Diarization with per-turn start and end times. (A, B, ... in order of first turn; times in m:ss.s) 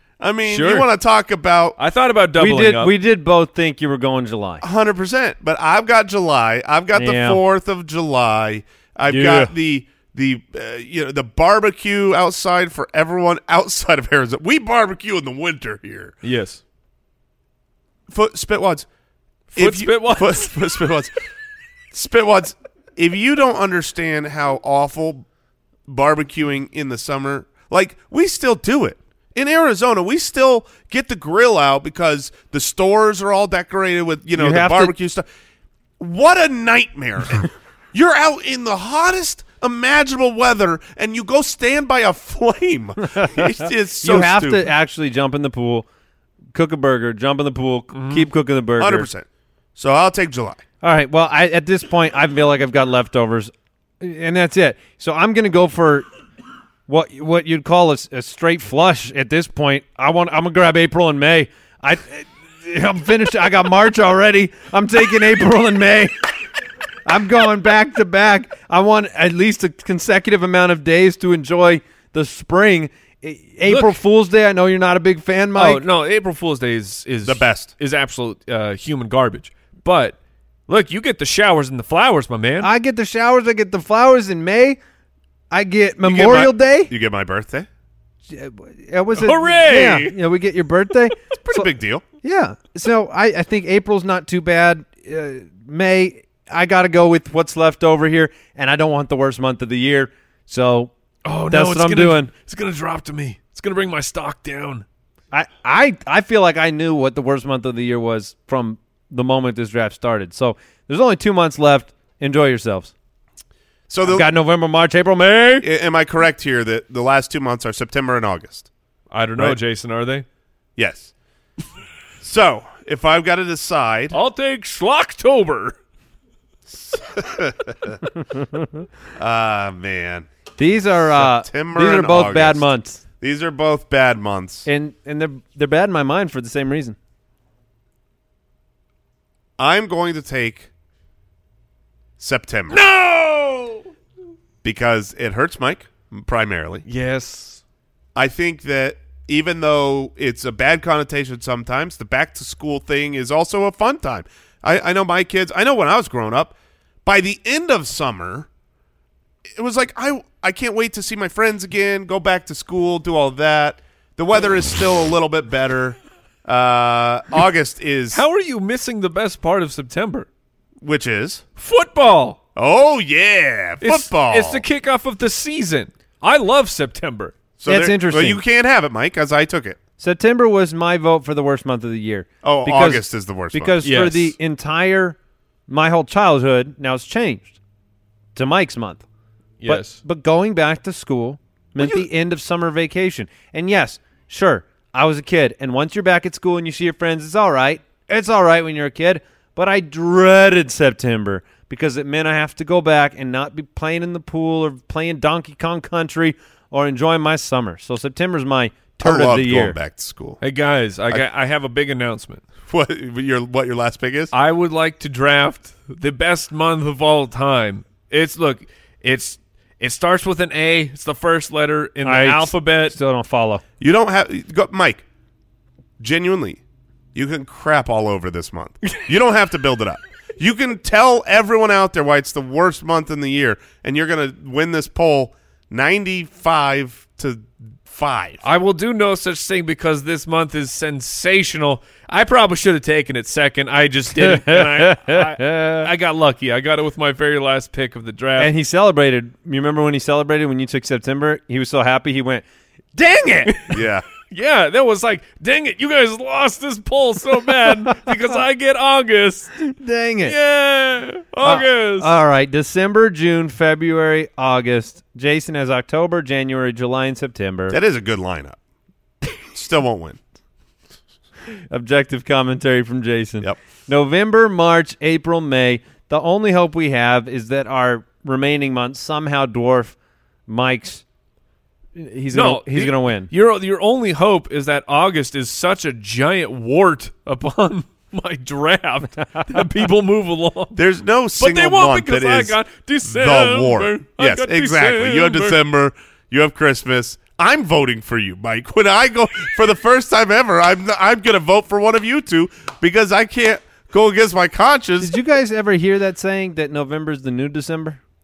0:00.2-0:01.8 A
0:00.5-0:00.9 B
0:01.8-0:02.9 B
0:02.4-0:04.6 C
0:04.6-0:16.2 A
0:06.9-0:07.4 C
0:09.1-0:09.5 B
0:16.2-0:16.6 B
0:18.1-0:18.9 A
0:19.5-0:20.5 B
0:19.6-0:21.1 A
0:21.9-0:25.3 A
0:25.9-0:35.2 A
0:34.4-0:34.9 C
0:36.0-0:44.7 A
0:43.2-0:45.9 C
0:46.5-0:49.1 C
0:47.9-0:48.3 B
0:48.8-0:50.6 A
0:50.8-0:56.1 C
0:56.9-1:06.3 C
1:07.0-1:15.8 C
1:13.7-1:14.0 B
1:15.6-1:20.2 B
1:17.2-1:17.7 A
1:20.7-1:22.7 B
1:22.6-1:24.8 C
1:25.5-1:26.9 C
1:26.0-1:27.7 A
1:28.3-1:31.7 C
1:29.2-1:30.2 B
1:31.4-1:32.0 A
1:32.2-1:40.9 C
1:41.2-1:44.8 B
1:41.5-1:42.3 C
1:45.3-1:52.9 C
1:53.9-1:54.3 A
1:54.0-1:55.7 C
1:55.6-1:58.7 A
1:59.1-2:00.2 B
2:00.8-2:01.1 A
2:02.2-2:04.2 A
2:04.1-2:05.8 B
2:06.7-2:08.0 A
2:09.2-2:10.3 A
2:10.6-2:13.0 C
2:11.0-2:12.7 A
2:13.2-2:14.7 A
2:14.7-2:17.0 C
2:19.6-2:20.7 A
2:22.2-2:22.8 A
2:22.7-2:23.9 B
2:24.6-2:26.8 A
2:26.8-2:27.6 B
2:28.2-2:38.5 A
2:39.5-2:48.2 A
2:48.1-2:50.3 B
2:50.8-2:51.4 A
2:51.6-2:52.4 B
2:52.6-2:54.6 A
2:53.8-2:57.3 B
2:57.6-2:59.8 A
2:57.7-2:58.4 C
3:00.0-3:05.2 C
3:02.4-3:03.8 A
3:03.8-3:04.4 B
3:05.7-3:07.6 C
3:08.4-3:09.0 C
3:09.6-3:10.0 B
3:09.7-3:29.8 C
3:29.0-3:30.4 A
3:30.4-3:32.4 B
3:32.7-3:34.3 A
3:34.3-3:43.0 B
3:42.0-3:43.6 C
3:43.8-3:45.0 A
3:46.0-3:46.6 A
3:47.1-3:58.4 A
3:58.4-4:08.5 B
4:04.2-4:05.9 C
4:08.4-4:13.8 C
4:13.5-4:13.8 B
4:13.7-4:14.0 A
4:14.3-4:19.6 B
4:17.9-4:18.1 C
4:19.7-4:20.4 C
4:20.2-4:22.1 B
4:21.4-4:27.8 C
4:27.7-4:28.6 A
4:29.5-4:30.2 A
4:31.7-4:40.0 C
4:40.5-4:41.0 C
4:42.0-4:43.3 C
4:42.3-4:50.8 B
4:50.8-5:05.1 A
4:51.4-4:55.6 B
5:05.0-5:08.0 C